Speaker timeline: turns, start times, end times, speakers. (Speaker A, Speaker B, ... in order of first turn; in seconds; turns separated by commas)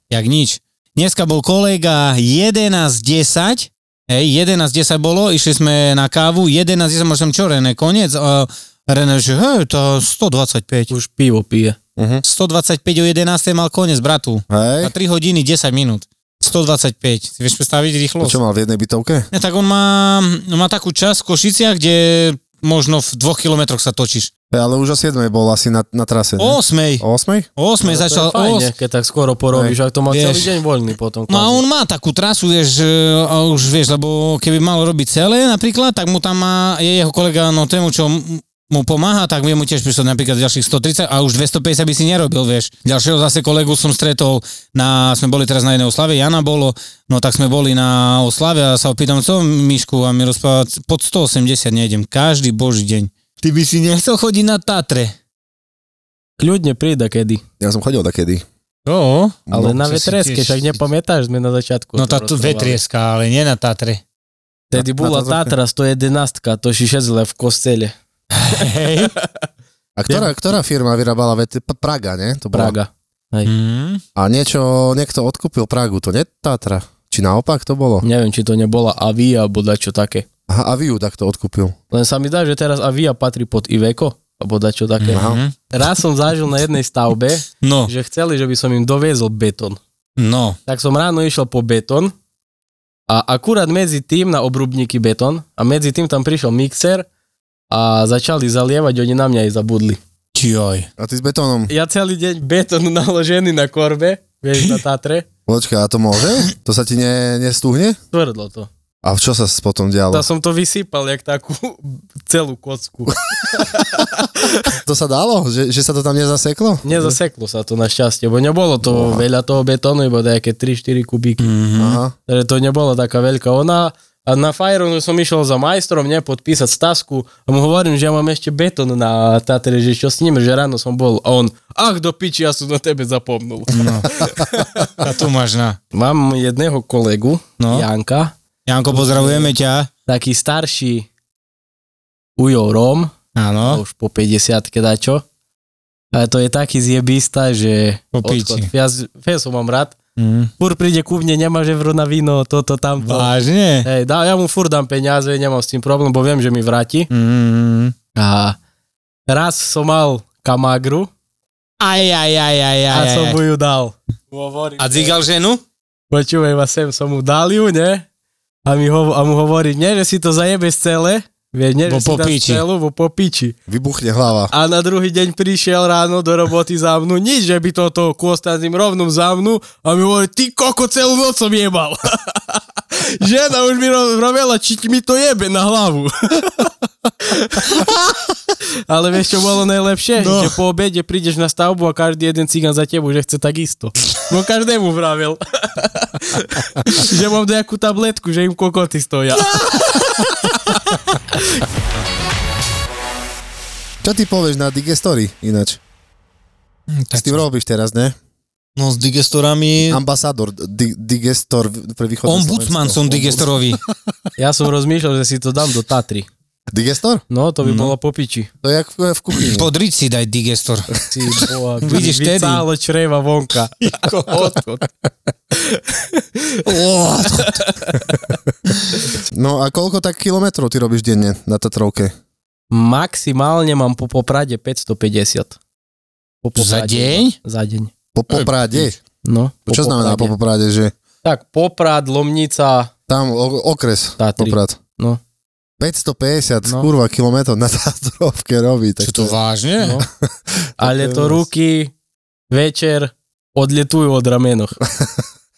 Speaker A: 0.1-10.9, Speaker B: 10.9-11.8, Speaker C: 12.0-12.2, Speaker A: 12.2-18.4, Speaker C: 14.5-14.9, Speaker C: 18.2-19.3, Speaker A: 19.3-24.3, Speaker C: 24.5-27.5, Speaker A: 26.4-27.0, Speaker A: 27.6-28.7, Speaker B: 27.8-31.6, Speaker A: 30.1-30.5, Speaker A: 31.3-55.1, Speaker B: 56.4-57.4, Speaker C: 57.6-58.4, Speaker A: 58.9-60.8, Speaker C: 59.5-59.8, Speaker B: 59.5-62.8, Speaker A: 62.0-64.0, Speaker B: 64.7-67.9, Speaker C: 64.7-65.5, Speaker A: 68.4-69.1, Speaker C: 70.0-72.8, Speaker B: 70.1-70.3, Speaker B: 72.5-73.5, Speaker A: 73.4-74.0, Speaker C: 74.2-78.0, Speaker B: 78.0-80.2, Speaker C: 80.5-81.7, Speaker B: 81.9-89.8, Speaker A: 85.0-85.5, Speaker C: 85.1-85.4, Speaker A: 87.6-87.9, Speaker A: 90.2-90.6, Speaker B: 90.7-92.1, Speaker B: 93.1-97.0, Speaker B: 97.7-100.0, Speaker A: 100.3-100.9, Speaker C: 101.0-101.7, Speaker B: 101.7-105.2, Speaker C: 105.5-108.0, Speaker B: 108.1-108.7, Speaker C: 109.0-110.3, Speaker B: 110.1-114.2, Speaker C: 113.4-113.8, Speaker C: 114.7-117.2, Speaker B: 116.8-121.5, Speaker C: 118.8-119.2, Speaker A: 121.4-122.0, Speaker C: 121.7-122.1, Speaker B: 122.2-134.9, Speaker A: 133.7-134.2, Speaker A: 135.0-135.8, Speaker B: 135.9-138.3, Speaker A: 137.6-137.9, Speaker A: 138.7-139.9, Speaker B: 138.9-139.5, Speaker B: 140.1-141.1, Speaker B: 142.3-143.1, Speaker A: 143.3-143.8, Speaker B: 143.6-145.2, Speaker B: 146.1-149.9, Speaker A: 148.1-148.7, Speaker A: 150.2-150.5, Speaker B: 150.6-153.3, Speaker A: 153.0-153.9, Speaker B: 153.8-157.1, Speaker A: 157.1-157.9, Speaker B: 158.1-158.6, Speaker B: 159.3-161.1, Speaker A: 161.8-163.4, Speaker B: 162.9-165.2, Speaker A: 164.8-165.6, Speaker B: 166.1-168.1, Speaker B: 168.6-173.6, Speaker A: 171.8-172.6, Speaker C: 173.7-174.5, Speaker B: 174.5-186.7, Speaker B: 187.2-187.9, Speaker B: 188.9-201.4, Speaker A: 190.2-190.5, Speaker A: 199.7-200.2, Speaker C: 204.0-205.8, Speaker A: 206.9-207.4, Speaker C: 207.1-208.1, Speaker A: 208.8-210.0, Speaker C: 209.9-213.9, Speaker A: 212.2-213.8, Speaker B: 214.4-216.3, Speaker C: 216.7-217.2, Speaker B: 217.3-218.5, Speaker A: 217.6-217.9, Speaker C: 218.6-219.7, Speaker A: 219.4-220.9, Speaker B: 221.1-224.9, Speaker A: 221.8-222.7, Speaker A: 223.8-224.5, Speaker B: 225.6-226.7, Speaker A: 226.7-227.7, Speaker B: 227.3-228.2, Speaker C: 229.3-232.1, Speaker B: 232.7-235.6, Speaker B: 236.4-237.9, Speaker A: 236.5-237.4, Speaker C: 238.1-239.0, Speaker A: 238.3-238.9, Speaker B: 239.2-240.3, Speaker C: 239.7-240.9, Speaker B: 241.2-242.9, Speaker C: 243.1-244.8, Speaker B: 244.2-245.2, Speaker C: 245.8-249.3, Speaker A: 249.0-250.0, Speaker C: 250.8-251.4, Speaker B: 250.8-251.9, Speaker B: 252.5-254.8, Speaker C: 254.8-255.2